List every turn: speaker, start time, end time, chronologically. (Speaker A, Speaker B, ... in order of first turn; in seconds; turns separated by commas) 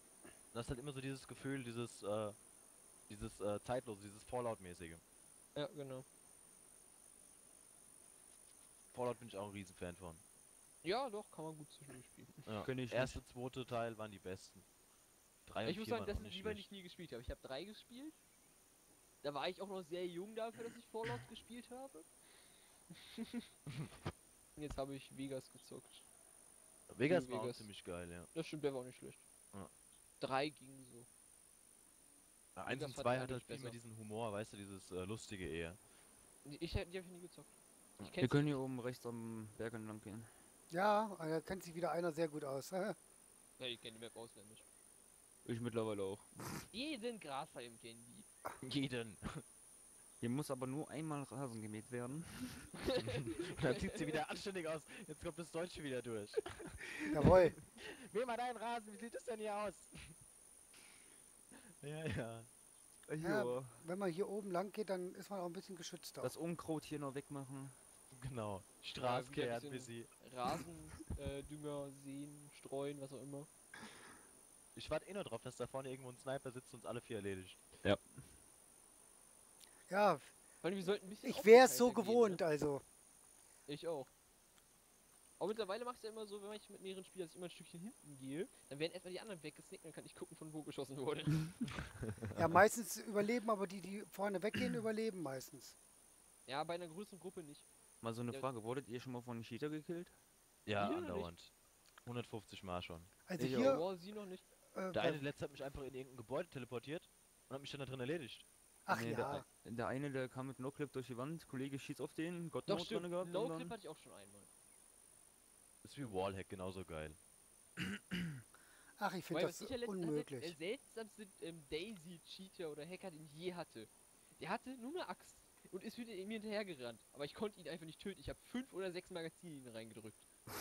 Speaker A: 0.5-2.4, Speaker A: 3.1-5.0, Speaker B: 5.5-6.0, Speaker A: 8.9-10.2, Speaker B: 10.8-12.4, Speaker A: 12.4-14.7, Speaker C: 12.6-13.2, Speaker A: 15.5-16.6, Speaker B: 15.6-18.2, Speaker B: 19.2-22.1, Speaker B: 24.6-26.0, Speaker A: 26.9-28.3, Speaker B: 27.1-27.7, Speaker B: 28.3-29.2, Speaker B: 30.2-31.1, Speaker A: 32.5-35.8, Speaker B: 32.7-33.8, Speaker B: 36.4-38.6, Speaker C: 38.2-40.3, Speaker D: 40.7-43.0, Speaker B: 43.6-44.6, Speaker C: 45.4-46.7, Speaker B: 46.7-48.3, Speaker A: 48.6-49.4, Speaker C: 50.2-52.8, Speaker A: 53.0-60.1, Speaker D: 57.1-57.5, Speaker A: 61.8-62.5, Speaker C: 63.1-63.8, Speaker D: 63.2-66.3, Speaker C: 66.2-67.8, Speaker A: 68.1-70.1, Speaker B: 69.0-73.5, Speaker A: 74.8-77.6, Speaker C: 77.8-78.2, Speaker D: 79.9-80.3, Speaker B: 80.6-82.4, Speaker D: 81.2-82.8, Speaker B: 83.7-84.1, Speaker B: 85.4-91.6, Speaker D: 92.3-95.8, Speaker B: 96.5-97.7, Speaker C: 98.0-100.2, Speaker A: 100.7-101.5, Speaker B: 100.8-101.3, Speaker A: 102.0-103.1, Speaker D: 103.2-103.9, Speaker C: 103.4-103.8, Speaker B: 103.5-104.5, Speaker D: 104.7-105.2, Speaker A: 104.9-108.5, Speaker D: 108.8-109.4, Speaker C: 108.9-113.7, Speaker B: 112.7-114.5, Speaker A: 115.8-117.2, Speaker D: 119.0-120.6, Speaker B: 119.3-130.2